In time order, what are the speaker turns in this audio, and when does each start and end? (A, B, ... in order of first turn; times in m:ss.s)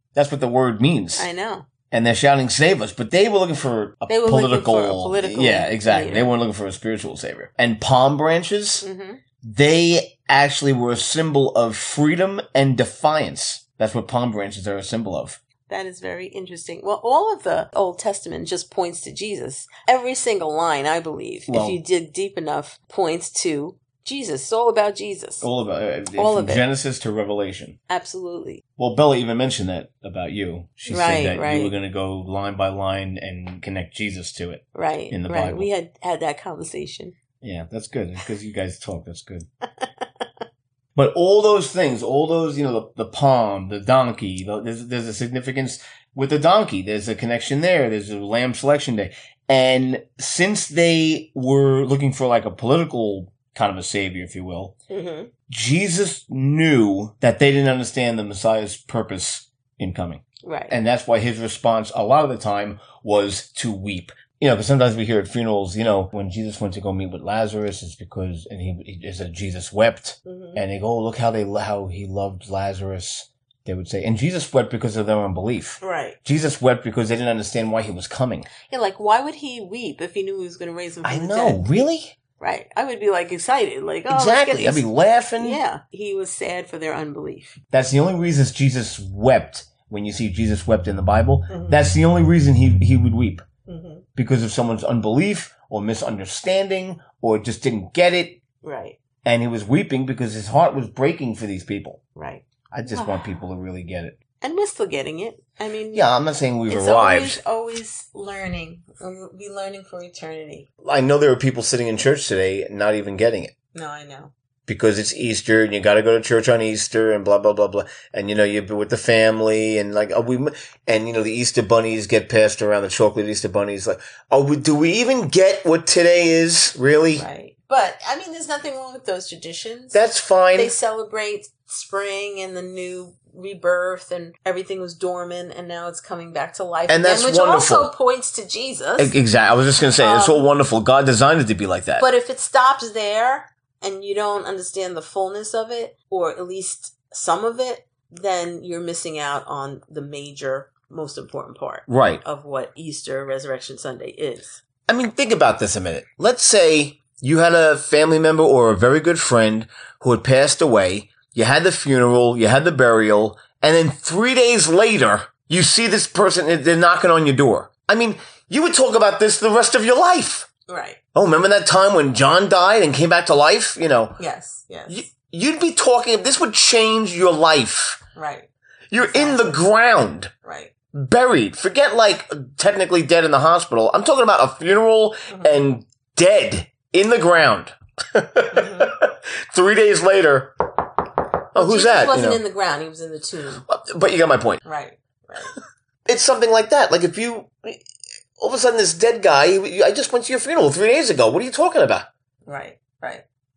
0:00.2-0:01.3 A
0:01.2-0:01.7 B
0:01.9-0:08.8 A
0:04.1-0:06.3 B
0:08.8-0:09.2 B
0:09.4-0:15.4 A
0:15.7-0:25.5 B
0:21.5-0:21.8 A
0:25.4-0:27.8 A
0:26.1-0:26.7 B
0:27.9-0:28.6 B
0:28.8-0:35.7 A
0:30.8-0:31.8 B
0:34.7-0:37.2 B
0:37.4-0:39.5 A
0:39.8-0:40.3 B
0:41.0-0:54.8 A
0:54.9-0:55.3 B
0:55.5-1:18.5 A
1:00.4-1:00.8 B
1:10.3-1:10.6 B
1:15.8-1:16.2 B
1:18.7-1:27.6 B
1:21.0-1:22.2 A
1:24.1-1:25.6 A
1:27.7-1:33.4 A
1:31.5-1:31.8 B
1:33.7-1:34.0 B
1:34.2-1:38.4 A
1:38.6-1:39.0 B
1:39.2-1:42.0 A
1:42.2-1:43.4 B
1:42.7-1:44.2 A
1:44.4-1:46.1 B
1:45.9-1:47.4 A
1:46.7-1:50.7 B
1:50.8-1:53.5 A
1:53.7-1:54.3 B
1:54.7-2:07.3 A
2:07.1-2:10.0 B
2:09.9-2:10.8 A
2:10.6-2:19.2 B
2:16.9-2:17.9 A
2:19.0-2:22.1 A
2:20.0-2:20.5 B
2:22.0-2:34.6 B
2:31.9-2:32.2 A
2:34.9-2:50.5 A
2:50.7-2:51.0 B
2:51.1-2:54.2 A
2:54.2-2:55.1 B
2:54.9-2:58.0 A
2:58.2-2:59.6 B
2:58.9-3:00.3 A
3:00.4-3:00.7 B
3:00.9-3:10.5 A
3:05.3-3:05.7 B
3:08.5-3:08.9 B
3:11.5-3:12.4 A
3:11.6-3:13.6 B
3:13.7-3:14.6 A
3:14.6-3:15.6 B
3:16.1-3:17.8 A
3:18.4-3:22.1 A
3:22.5-3:23.2 B